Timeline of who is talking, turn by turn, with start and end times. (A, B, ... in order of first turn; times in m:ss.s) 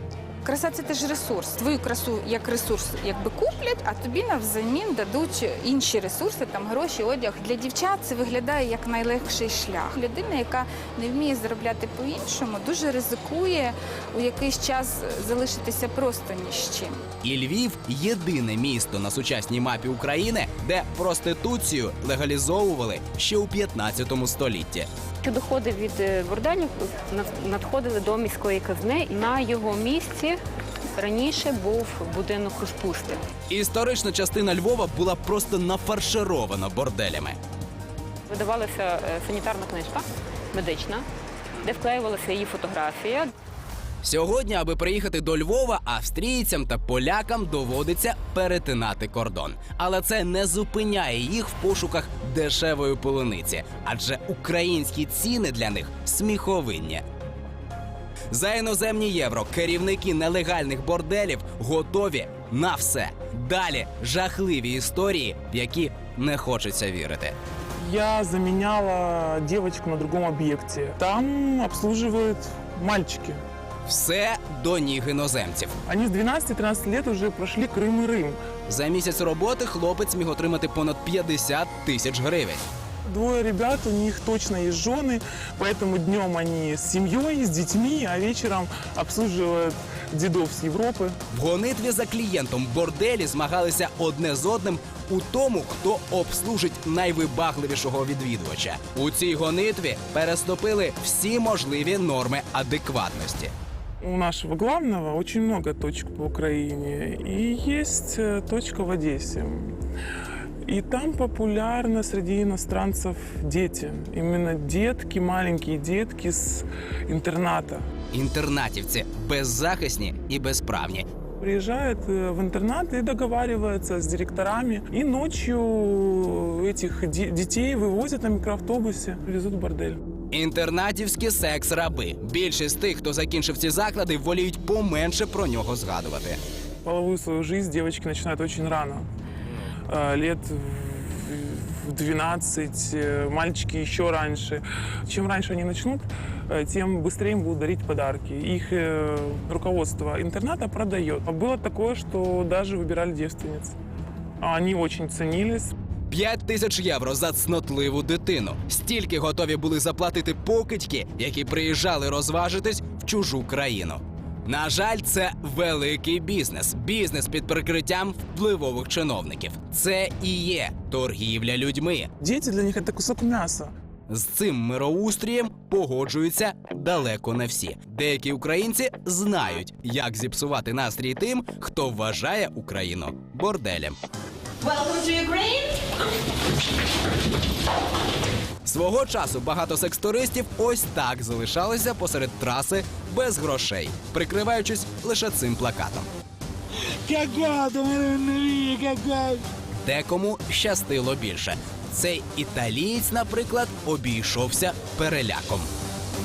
0:00.4-0:17.0 A
0:17.2-0:24.9 B
0:25.2-0:30.4 C
0:31.0-0:33.2 C
0:33.5-0:37.4 B
0:38.3-0:41.0 C
0:41.6-0:43.3 C
0:44.0-0:57.0 B
0:58.3-1:07.3 B
1:07.8-1:13.4 D
1:13.8-1:15.8 B
1:15.8-1:18.4 D
1:18.7-1:22.6 B
1:23.0-1:31.2 D
1:31.3-1:43.5 B
1:44.0-1:49.8 D
1:50.6-1:57.9 D
1:58.1-2:01.0 B
2:01.4-2:10.0 D
2:10.3-2:16.4 B
2:16.8-2:19.1 D
2:19.9-2:33.8 D
2:34.4-2:35.7 D
2:36.1-2:52.1 B
2:52.2-2:53.7 D
2:54.1-3:04.0 B
3:08.6-3:16.1 B
3:19.8-3:25.7 B